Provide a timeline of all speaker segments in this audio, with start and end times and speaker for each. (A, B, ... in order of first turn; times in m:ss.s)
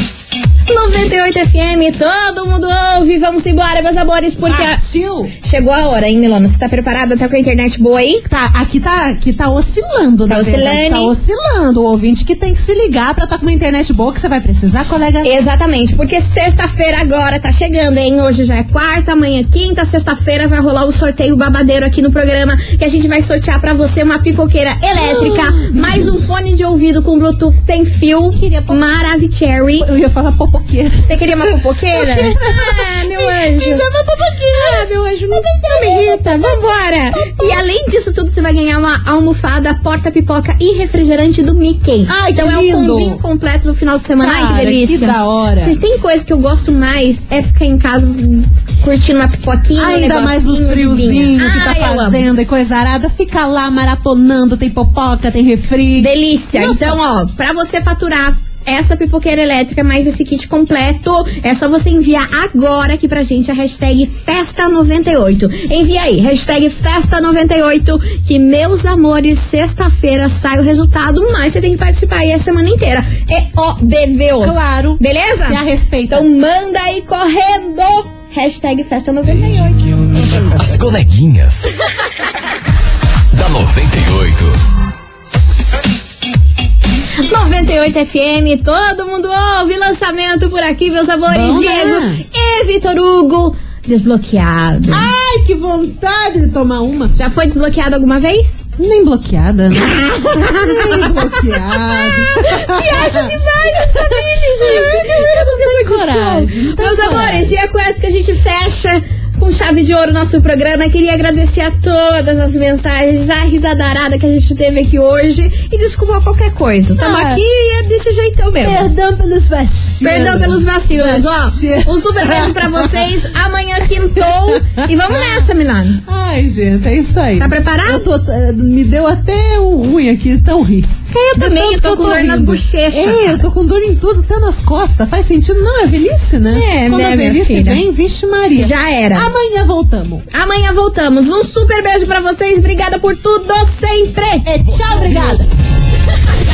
0:00.7-0:04.8 A
0:04.4-0:05.3 B
0:05.4-0:08.2 A
0:08.3-0:15.3 B
0:10.3-0:11.1 A
0:15.2-0:29.9 A
0:24.9-0:26.1 B
0:28.3-0:28.9 B
0:29.8-0:37.6 B
0:31.1-0:33.8 A
0:34.5-0:52.2 A
0:42.1-0:43.2 B
0:44.2-0:45.8 B
0:49.8-0:57.0 B
0:56.0-1:19.9 A
1:14.4-1:16.3 B
1:19.7-1:21.7 C
1:20.1-1:20.7 B
1:23.3-1:24.6 C
1:27.2-1:35.1 A
1:31.3-1:32.2 B
1:34.9-1:37.1 B
1:37.1-1:38.6 A
1:38.8-1:47.5 B
1:39.8-1:58.9 A
1:57.0-1:57.4 B
1:58.6-2:03.0 B
2:00.0-2:06.0 A
2:04.1-2:05.5 B
2:06.0-2:20.2 B
2:07.4-2:08.0 A
2:11.1-2:13.5 A
2:16.5-2:17.8 A
2:18.6-2:19.3 A
2:20.3-2:24.5 A
2:24.4-2:25.5 B